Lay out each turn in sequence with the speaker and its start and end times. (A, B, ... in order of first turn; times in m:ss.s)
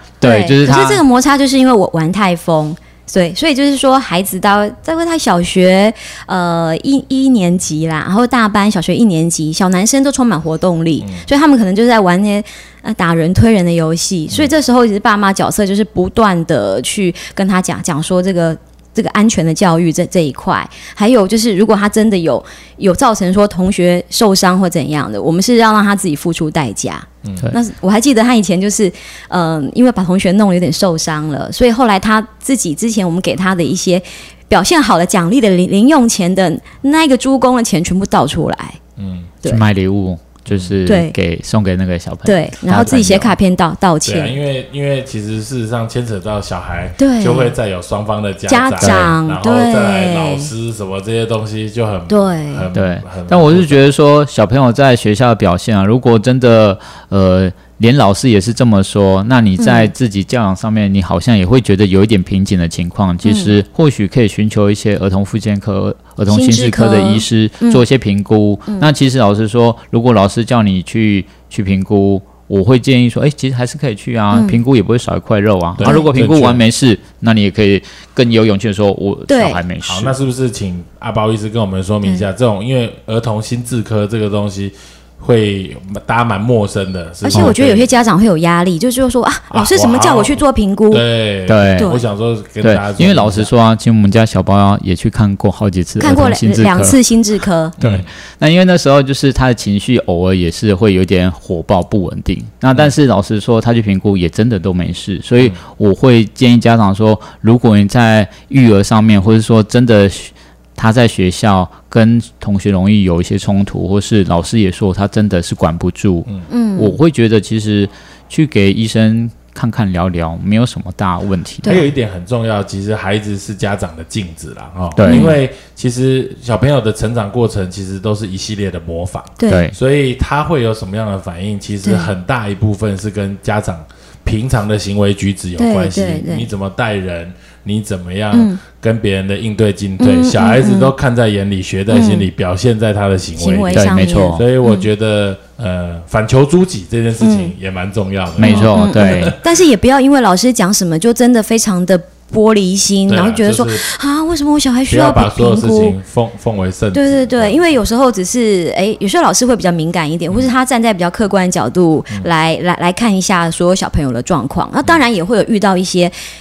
0:00.2-0:01.0 A
0:00.2-0:38.8 B
0:11.0-0:11.3 C
0:39.0-0:39.3 C
0:39.4-0:43.4 A
0:40.5-0:40.7 C
0:40.8-0:41.1 B
0:42.2-0:44.4 B
0:44.0-0:53.8 C
0:47.0-0:47.5 B
0:48.4-0:50.5 B
0:48.8-0:49.2 A
0:52.1-0:52.6 B
0:52.7-1:20.2 A
0:59.6-0:59.9 B
1:03.2-1:03.5 B
1:06.3-1:07.8 B
1:14.3-1:14.6 B
1:15.8-1:16.6 C
1:15.8-1:16.1 B
1:19.3-1:19.6 B
1:19.8-1:27.9 C
1:27.2-1:31.0 B
1:29.5-1:33.5 C
1:31.5-1:31.9 A
1:31.8-1:32.0 B
1:32.6-1:37.0 A
1:36.0-1:37.8 B
1:37.8-1:38.1 C
1:37.8-2:01.8 A
1:56.5-1:57.0 B
2:01.6-2:01.9 B
2:01.6-2:29.4 C
2:05.0-2:05.4 A
2:05.1-2:05.4 B
2:09.4-2:09.7 B
2:09.5-2:09.7 A
2:11.8-2:12.1 B
2:15.6-2:16.5 B
2:18.3-2:18.6 B
2:20.0-2:20.9 B
2:21.9-2:22.3 B
2:23.4-2:24.9 B
2:23.7-2:24.4 A
2:27.2-2:27.5 B
2:28.4-2:29.3 A
2:28.4-2:36.0 B
2:33.1-2:33.8 C
2:34.9-2:37.8 C
2:36.9-2:46.1 B